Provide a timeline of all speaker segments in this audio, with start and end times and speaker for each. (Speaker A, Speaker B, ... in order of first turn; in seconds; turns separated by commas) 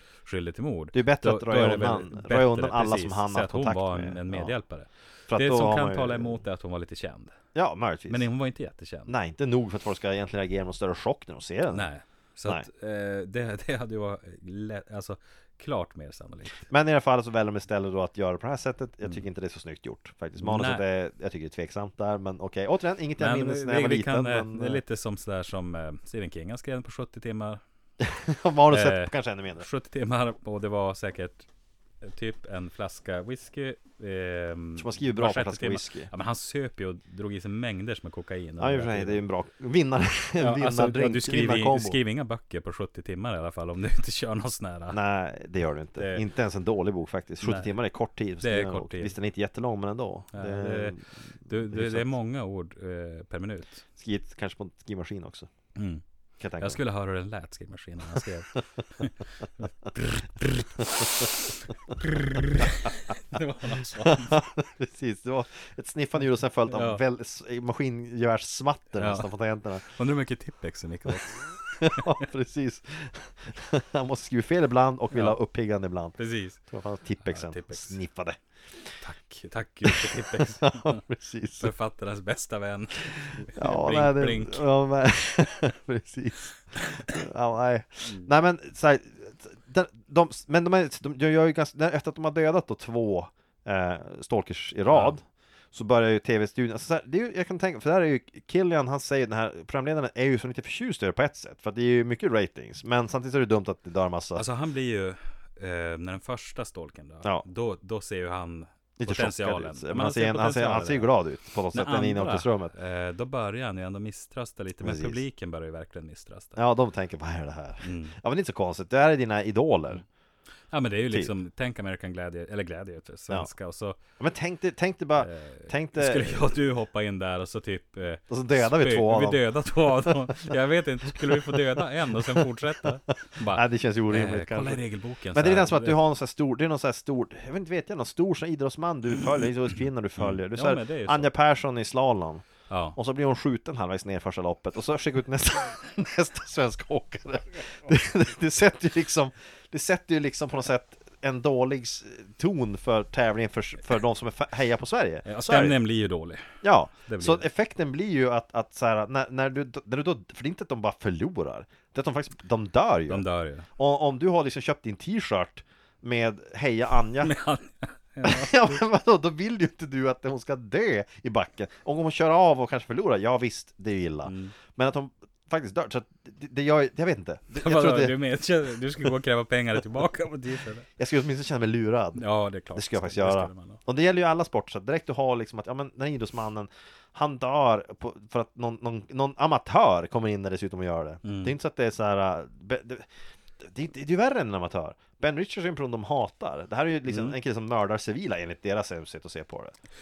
Speaker A: 0.2-7.4, Speaker B: 0.9-4.5, Speaker B: 5.3-6.4, Speaker B: 7.5-8.3, Speaker A: 8.1-9.2, Speaker B: 9.1-11.9, Speaker A: 11.7-16.7, Speaker B: 16.7-24.8, Speaker A: 20.4-20.8, Speaker A: 23.2-27.6, Speaker B: 28.0-29.7, Speaker A: 28.7-31.5, Speaker A: 32.0-39.2, Speaker B: 34.8-36.1, Speaker B: 38.6-42.0, Speaker A: 40.4-45.0, Speaker B: 44.9-52.1, Speaker A: 46.0-46.2, Speaker A: 47.4-47.7, Speaker A: 48.4-49.1, Speaker A: 50.3-51.0, Speaker A: 51.5-53.8, Speaker B: 54.0-55.5, Speaker A: 55.8-56.0, Speaker B: 56.4-56.8, Speaker A: 56.6-64.4, Speaker B: 60.8-61.3, Speaker B: 64.0-69.9, Speaker A: 66.7-67.0, Speaker A: 69.0-69.3, Speaker A: 69.8-72.2, Speaker B: 71.7-76.2, Speaker A: 75.1-75.4, Speaker A: 76.2-76.6, Speaker B: 76.7-78.9, Speaker A: 77.2-78.0, Speaker A: 79.0-81.0, Speaker B: 79.8-81.7, Speaker A: 81.6-84.6, Speaker B: 83.2-104.5, Speaker A: 88.0-88.3, Speaker A: 94.9-95.2, Speaker A: 104.4-111.1, Speaker B: 109.0-112.7, Speaker A: 111.7-116.6, Speaker B: 114.8-115.2, Speaker B: 116.6-120.0, Speaker A: 117.8-118.2, Speaker A: 120.7-124.0, Speaker B: 124.2-126.5, Speaker A: 125.2-136.0, Speaker B: 128.3-129.4, Speaker B: 130.0-130.5, Speaker B: 131.2-131.6, Speaker B: 133.5-134.8, Speaker B: 135.3-155.8, Speaker A: 140.2-141.3, Speaker A: 142.7-143.0, Speaker A: 155.2-156.4, Speaker B: 156.6-163.2, Speaker A: 157.1-157.4, Speaker A: 163.1-163.7, Speaker B: 163.8-167.3, Speaker A: 167.2-168.8, Speaker B: 168.2-178.2, Speaker A: 174.3-174.6, Speaker A: 177.6-180.9, Speaker B: 181.0-182.2, Speaker A: 182.2-183.8, Speaker B: 182.7-193.1, Speaker A: 191.2-191.5, Speaker B: 193.6-199.8, Speaker A: 197.1-197.4